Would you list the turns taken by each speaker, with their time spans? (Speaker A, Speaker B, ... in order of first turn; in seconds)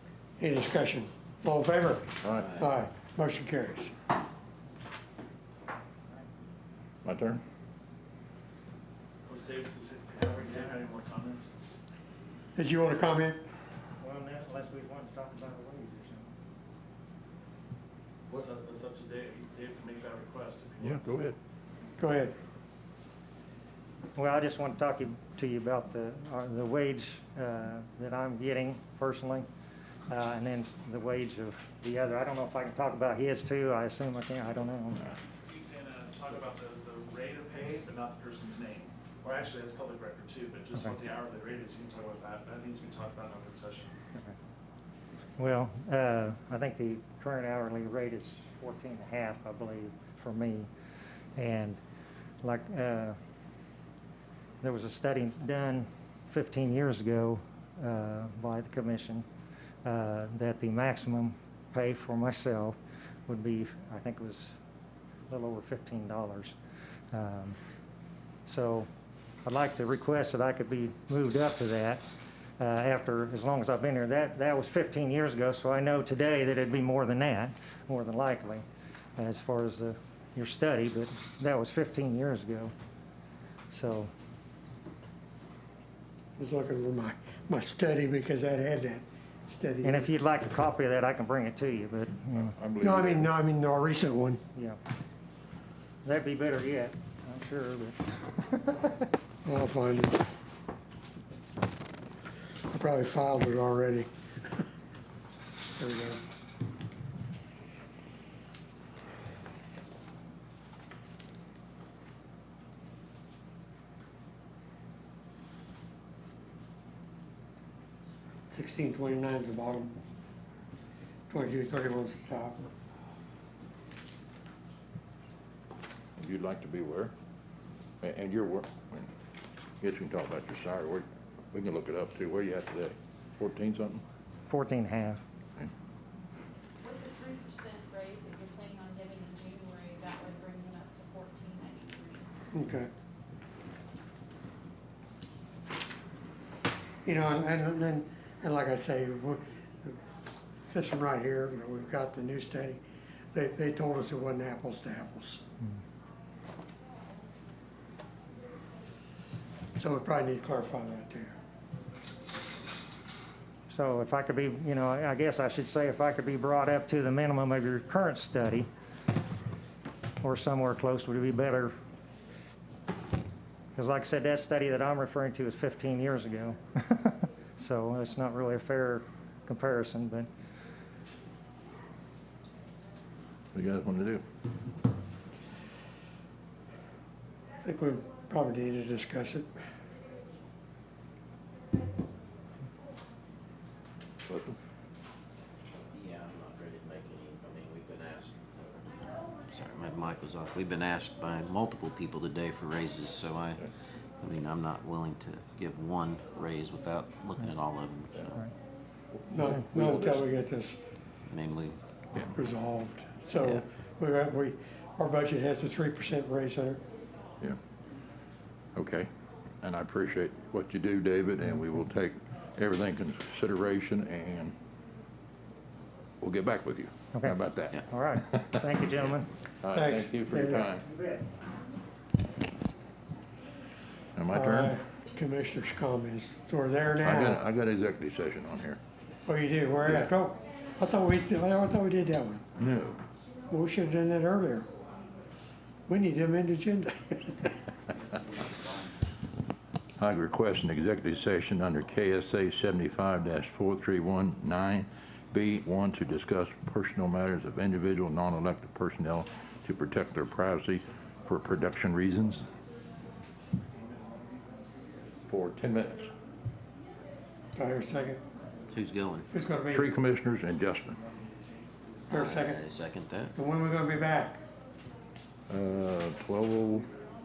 Speaker A: 0.4-3.9, 12.6-13.4, 22.0-22.4, 86.4-90.1, 92.8-94.4, 99.5-100.2, 102.7-104.1, 105.8-106.2, 118.5-119.9, 121.3-122.6, 142.5-142.9, 147.0-150.0, 150.7-152.8, 153.3-155.4, 159.8-161.3, 187.6-189.5, 209.3-210.8, 212.3-216.8, 229.7-230.7, 234.3-237.4, 239.3-242.4, 243.5-244.7, 245.9-247.6, 267.6-268.2, 269.3-269.9, 272.1-272.6, 273.4-274.4
Speaker B: 2.2-2.5, 7.0-7.4, 20.8-21.4, 92.4-93.3, 126.2-127.1, 128.0-129.1, 129.8-134.0, 183.5-184.2, 194.3-194.6, 209.1-210.2, 218.8-219.1, 219.6-224.6, 226.2-228.6, 229.6-230.8, 234.2-234.8, 237.1-238.8, 242.6-243.0, 250.0-262.5, 265.3-266.1, 269.7-271.0, 275.5-276.9
Speaker C: 2.4-2.7, 195.9-208.4, 211.3-211.8, 268.7-269.3, 272.1-273.3
Speaker D: 9.2-11.5, 18.3-21.1, 35.5-44.0
Speaker E: 14.0-16.3, 24.2-29.5, 30.1-35.2, 45.4-50.7, 51.4-51.8, 52.4-53.2, 54.6-59.3, 59.8-64.5, 65.3-66.6, 67.1-67.6, 68.5-68.9, 69.4-72.0, 72.6-78.7, 79.2-82.7, 83.7-84.1, 89.8-92.5, 96.0-99.0, 134.5-135.2, 163.7-168.7, 170.2-171.7, 173.8-180.3, 227.9-229.3, 230.8-231.2
Speaker F: 136.8-142.3